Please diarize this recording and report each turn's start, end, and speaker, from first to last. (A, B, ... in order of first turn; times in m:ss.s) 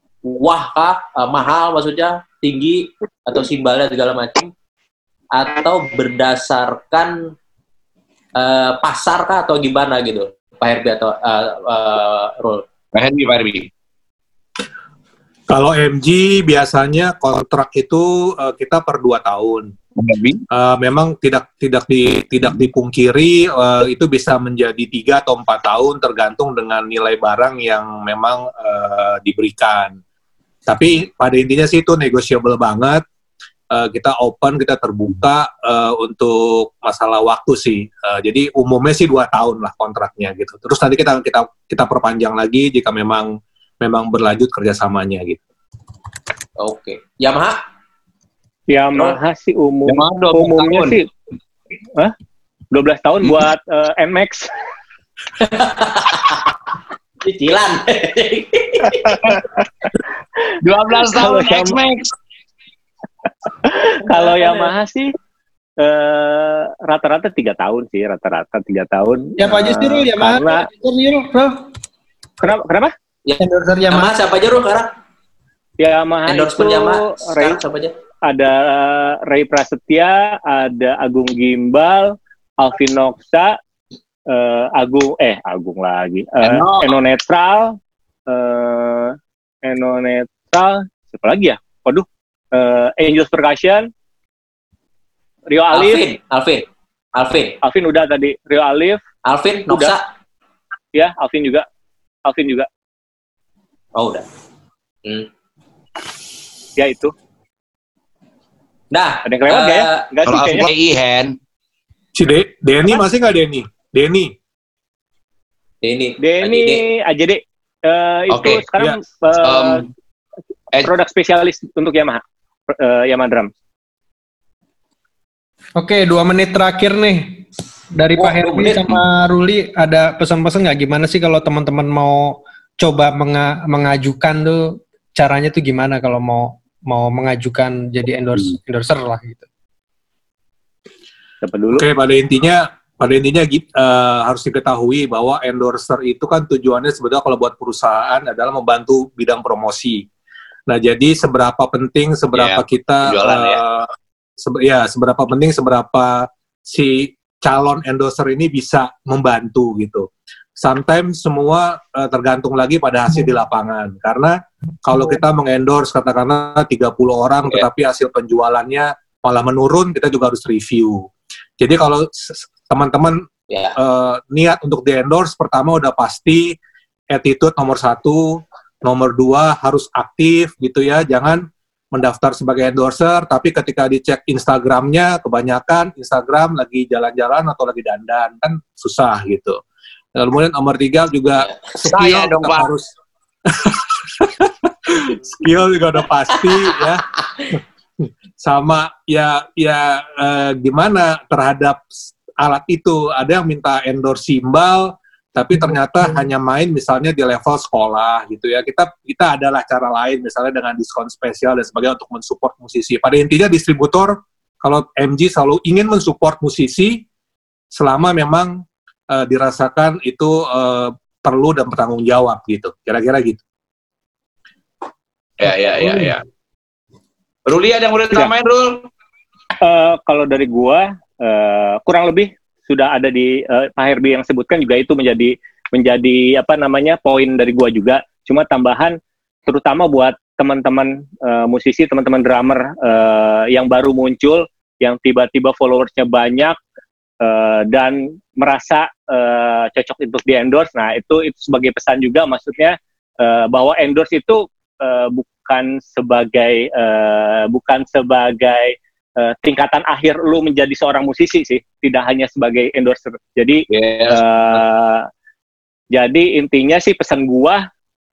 0:00.2-0:04.5 A
0:05.3-0:07.3 A
0:08.4-0:12.7 A
0:12.9-0:13.7 B
0:15.5-0:19.7 C
0:20.0-0:20.4 B
0:20.5-0:30.0 C
0:30.7-0:33.0 C
0:33.7-0:45.4 C
0:46.6-0:47.6 A
0:48.7-0:51.1 D
0:49.9-0:51.0 B
0:52.7-0:54.5 D
0:55.4-0:56.5 A
0:57.2-0:59.2 A
1:00.6-1:02.1 B
1:01.2-1:01.8 D
1:03.6-1:05.1 D
1:05.8-1:10.7 D
1:09.4-1:11.6 E
1:12.4-1:12.9 D
1:13.2-1:14.9 A
1:13.4-1:14.1 E
1:15.8-1:17.6 D
1:16.3-1:17.9 A
1:18.3-1:23.6 D
1:24.3-1:27.8 D
1:26.4-1:26.9 B
1:28.3-1:33.9 D
1:35.5-1:36.0 D
1:35.7-1:37.6 A
1:37.6-1:39.0 D
1:39.2-1:40.0 A
1:39.7-1:40.0 D
1:40.9-1:41.7 D
1:42.3-1:42.7 D
1:44.0-1:44.3 A
1:45.0-1:45.3 A
1:46.8-1:47.1 D
1:48.9-1:50.1 A
1:49.2-1:50.7 D
1:50.3-1:51.4 B
1:52.2-1:54.3 C
1:55.8-1:56.8 A
1:56.2-1:59.9 D
1:58.3-1:58.6 B
1:59.4-1:59.9 B
2:00.8-2:03.5 D
2:05.8-2:19.5 E
2:08.2-2:09.0 A
2:21.4-2:21.9 D
2:21.7-2:30.1 C
2:30.7-2:51.1 C
2:32.3-2:33.6 B
2:51.6-2:53.2 C
2:53.5-2:53.8 A
2:53.8-2:56.6 C
2:57.1-3:09.6 C
3:10.2-3:12.9 C
3:11.9-3:12.7 B
3:13.5-3:17.0 C
3:18.4-3:37.0 C
3:37.7-3:43.4 C
3:45.4-3:46.2 B
3:47.5-3:48.8 B
3:49.6-4:06.6 D
4:07.2-4:25.1 D
4:23.7-4:24.6 B
4:25.9-4:27.6 D